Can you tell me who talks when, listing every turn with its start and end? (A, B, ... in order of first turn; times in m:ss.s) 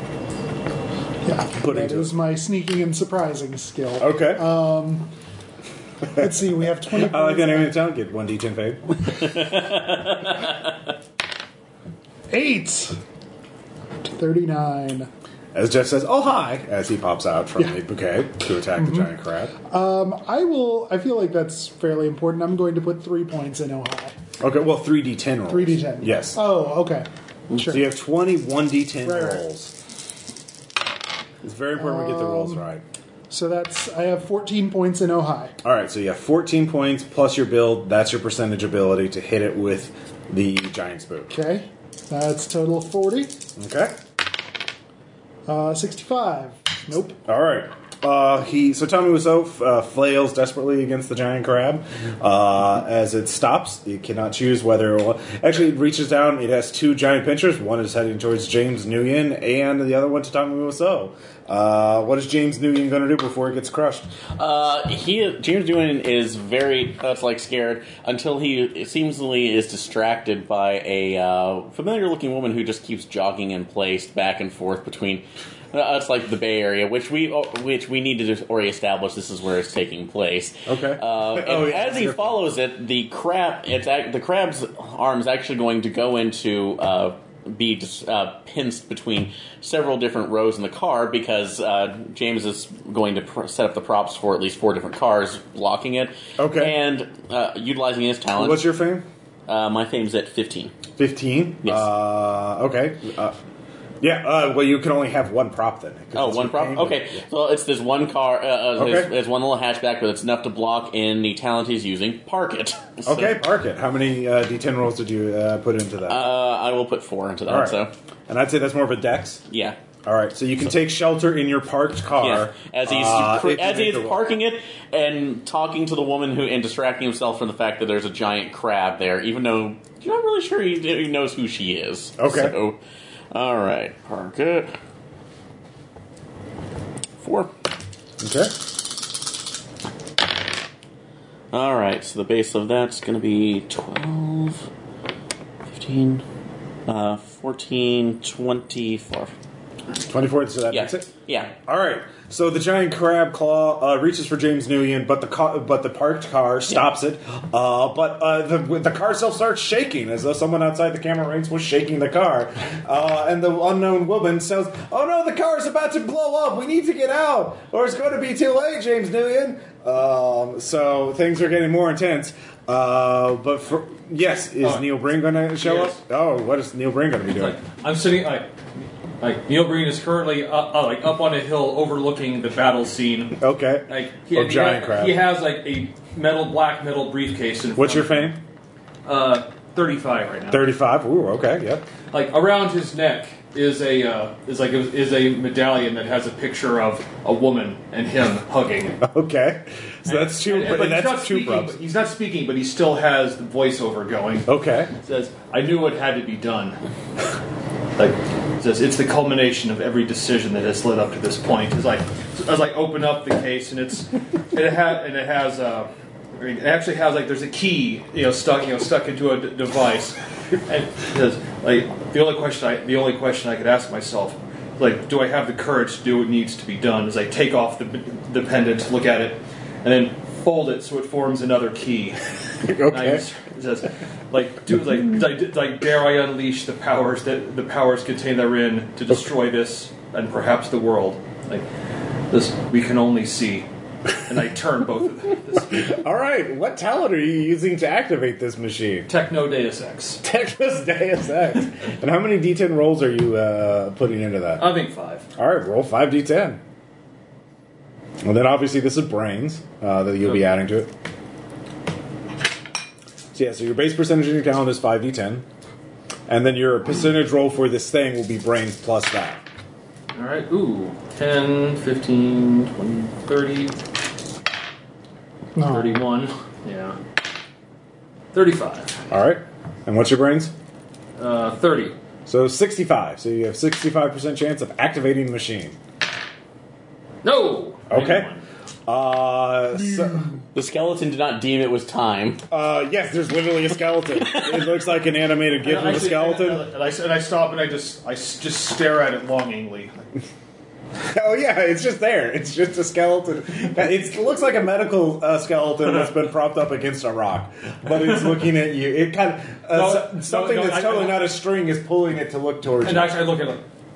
0:01.2-0:05.1 A
0:01.6-0:02.1 B
0:04.0-0:04.4 B
0:06.2-0:07.7 A
0:06.9-0:09.3 B
0:09.1-0:10.7 C
0:12.3-0:13.0 A
0:14.0-0:15.1 A
0:15.5-0:19.5 B
0:18.8-0:19.1 A
0:19.6-0:24.2 A
0:24.4-0:26.4 B
0:25.5-0:27.8 A
0:27.6-0:29.7 B
0:29.0-0:29.4 A
0:31.4-0:32.8 B
0:31.8-0:32.6 A
0:33.3-0:35.6 A
0:35.6-0:41.3 B
0:41.3-0:43.3 A
0:43.6-0:43.9 B
0:45.5-0:47.2 A
0:47.2-1:04.1 B
1:04.4-1:38.7 C
1:20.7-1:22.4 B
1:36.4-1:36.7 B
1:38.3-1:39.0 B
1:39.5-1:40.7 C
1:41.0-1:43.4 B
1:44.0-1:47.2 B
1:46.1-1:53.4 C
1:48.8-1:49.1 B
1:53.0-1:56.2 B
1:56.1-1:57.9 C
1:57.5-1:59.4 B
1:59.5-1:59.8 C
2:00.0-2:04.2 B
2:02.2-2:12.8 C
2:12.2-2:12.5 B
2:13.3-2:14.7 C
2:17.2-2:17.5 C
2:18.2-2:18.5 B
2:21.5-2:24.7 C
2:25.6-2:26.2 C
2:26.9-2:29.3 C
2:30.1-2:31.1 B
2:30.7-2:31.5 C
2:31.6-2:57.6 B
2:54.6-2:54.9 D
2:55.6-2:56.0 D
2:57.3-2:58.5 D
2:59.2-3:08.3 D
3:03.4-3:05.2 B
3:07.8-3:08.4 B
3:09.0-3:10.6 D
3:10.5-3:11.8 B
3:12.1-3:19.0 D
3:19.0-3:21.7 B
3:20.0-3:26.8 D
3:24.5-3:24.9 B
3:28.0-3:52.2 D
3:52.6-3:53.2 B
3:52.9-4:01.7 D
4:02.3-4:03.7 D
4:04.2-4:06.0 D
4:05.8-4:09.1 B
4:09.1-4:10.2 D
4:10.2-4:14.7 B
4:14.6-4:15.3 D
4:15.4-4:16.6 B
4:18.2-4:20.9 B
4:23.3-4:25.4 B
4:26.3-4:29.4 B
4:30.1-4:33.8 D
4:35.5-4:36.0 A
4:35.7-4:37.0 D
4:38.3-4:38.9 D
4:39.1-4:40.5 B
4:41.2-4:42.0 D
4:42.2-4:45.8 B
4:47.2-4:48.4 D
4:47.9-4:48.3 B
4:48.9-4:50.3 B
4:50.5-4:52.4 C
4:52.5-4:56.6 B
4:54.2-4:54.7 C
4:55.6-5:00.0 D
5:01.1-5:13.1 B
5:09.7-5:11.2 D
5:12.8-5:13.6 D